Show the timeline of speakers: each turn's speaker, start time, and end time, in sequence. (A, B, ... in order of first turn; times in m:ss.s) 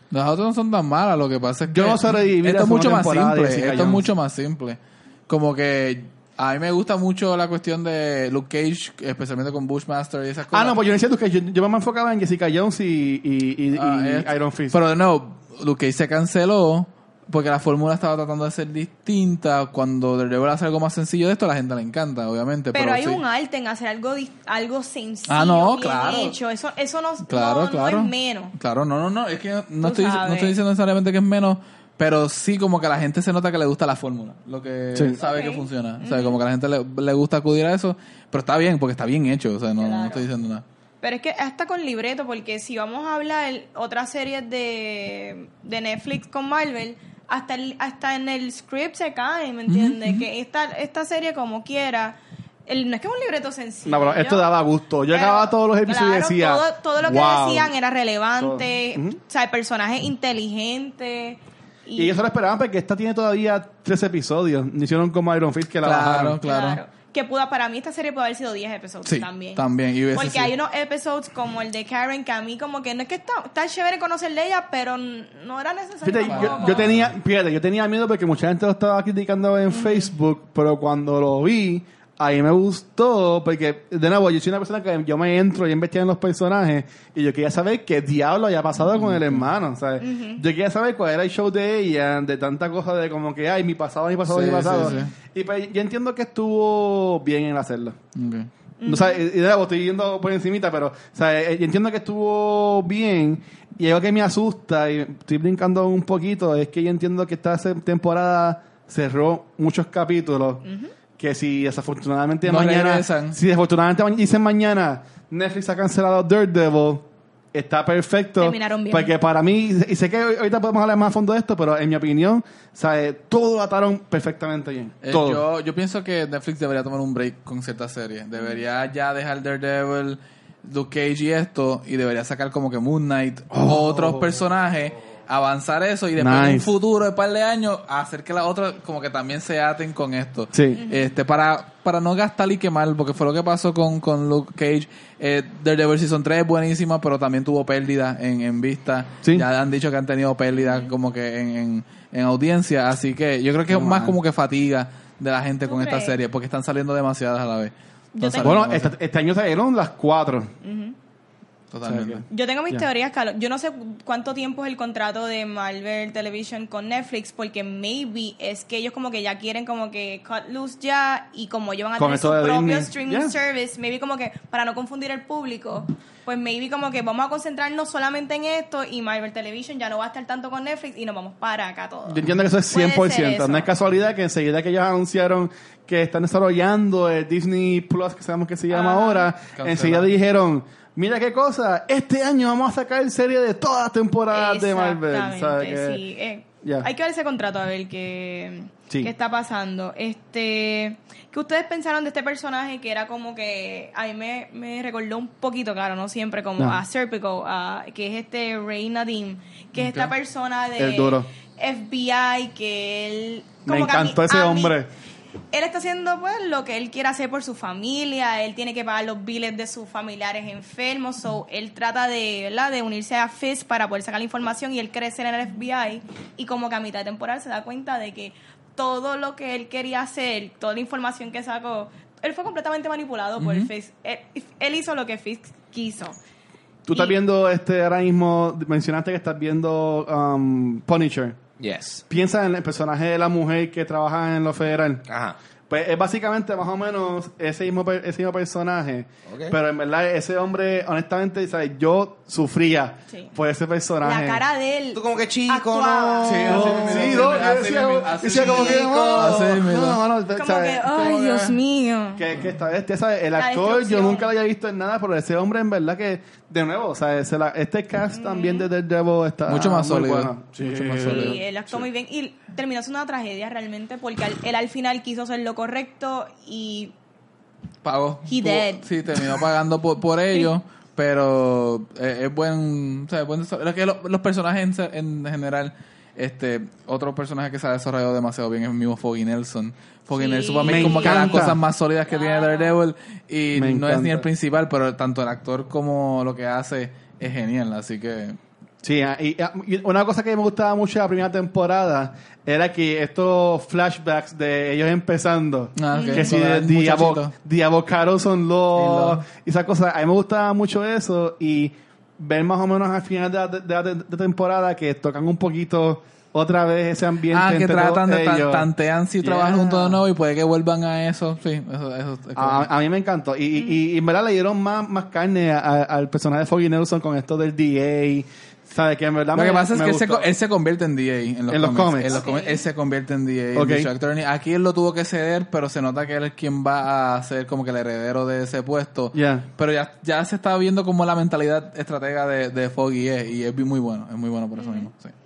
0:00.1-0:10.8 A
0:01.7-0:04.1 B
0:10.5-0:14.8 B
0:13.7-0:23.2 A
0:22.7-0:28.5 C
0:25.3-0:26.4 A
0:27.3-0:40.6 A
0:29.8-0:30.6 C
0:35.2-0:36.4 C
0:39.8-0:40.3 C
0:41.0-0:54.5 C
0:49.7-0:50.3 A
0:53.9-0:57.7 B
0:55.1-1:02.1 C
0:58.4-0:59.2 B
1:02.0-1:06.4 B
1:05.8-1:06.8 A
1:06.4-1:16.9 C
1:09.1-1:10.5 A
1:16.0-1:38.0 B
1:16.3-1:17.1 A
1:19.7-1:20.1 C
1:28.9-1:29.5 A
1:30.0-1:30.4 C
1:34.3-1:35.1 A
1:34.8-1:35.1 C
1:38.2-1:38.5 A
1:38.8-1:39.2 C
1:38.8-1:50.6 B
1:50.6-1:50.9 C
1:51.2-2:05.4 B
1:52.4-1:53.4 A
1:58.4-1:59.1 C
2:05.0-2:38.9 A
2:13.5-2:14.4 B
2:16.2-2:16.7 B
2:20.5-2:20.8 B
2:20.8-2:21.1 C
2:30.5-2:30.9 C
2:33.7-2:34.2 B
2:35.7-2:36.2 C
2:38.1-2:38.6 C
2:38.4-2:40.5 B
2:40.6-2:41.0 C
2:41.7-2:42.2 A
2:41.8-2:42.8 B
2:42.3-3:03.7 C
2:52.0-2:53.4 B
3:02.1-3:16.0 B
3:08.7-3:09.3 C
3:09.5-3:10.1 A
3:14.3-3:34.8 C
3:16.6-3:16.9 B
3:29.8-3:30.1 A
3:30.8-3:31.3 B
3:33.7-3:34.9 B
3:35.5-3:56.2 C
3:53.4-3:53.7 A
3:56.9-4:01.4 B
3:56.9-3:57.2 C
4:01.6-4:02.0 D
4:02.1-4:05.0 B
4:05.1-4:05.4 D
4:05.7-4:14.4 B
4:09.3-4:09.6 D
4:14.0-4:17.3 C
4:14.9-4:17.2 D
4:16.2-4:20.0 A
4:16.5-4:21.6 B
4:18.2-4:19.5 C
4:20.3-4:22.3 C
4:22.2-4:31.8 B
4:23.4-4:24.3 C
4:28.1-4:28.7 C
4:29.5-4:31.4 A
4:31.0-4:36.9 C
4:37.8-4:58.4 A
4:38.3-4:38.9 C
4:50.2-4:51.4 C
4:50.6-4:51.6 B
4:52.1-4:52.8 C
4:53.6-4:54.3 B
4:58.8-5:18.7 B
5:05.8-5:07.3 A
5:05.9-5:06.3 C
5:08.8-5:09.2 A
5:17.3-5:22.7 A
5:19.2-5:20.0 B
5:22.4-5:30.3 B
5:29.4-5:45.1 A
5:31.5-5:32.2 B
5:32.1-5:32.6 C
5:33.6-5:33.9 B
5:39.1-5:39.5 B
5:44.6-5:44.9 C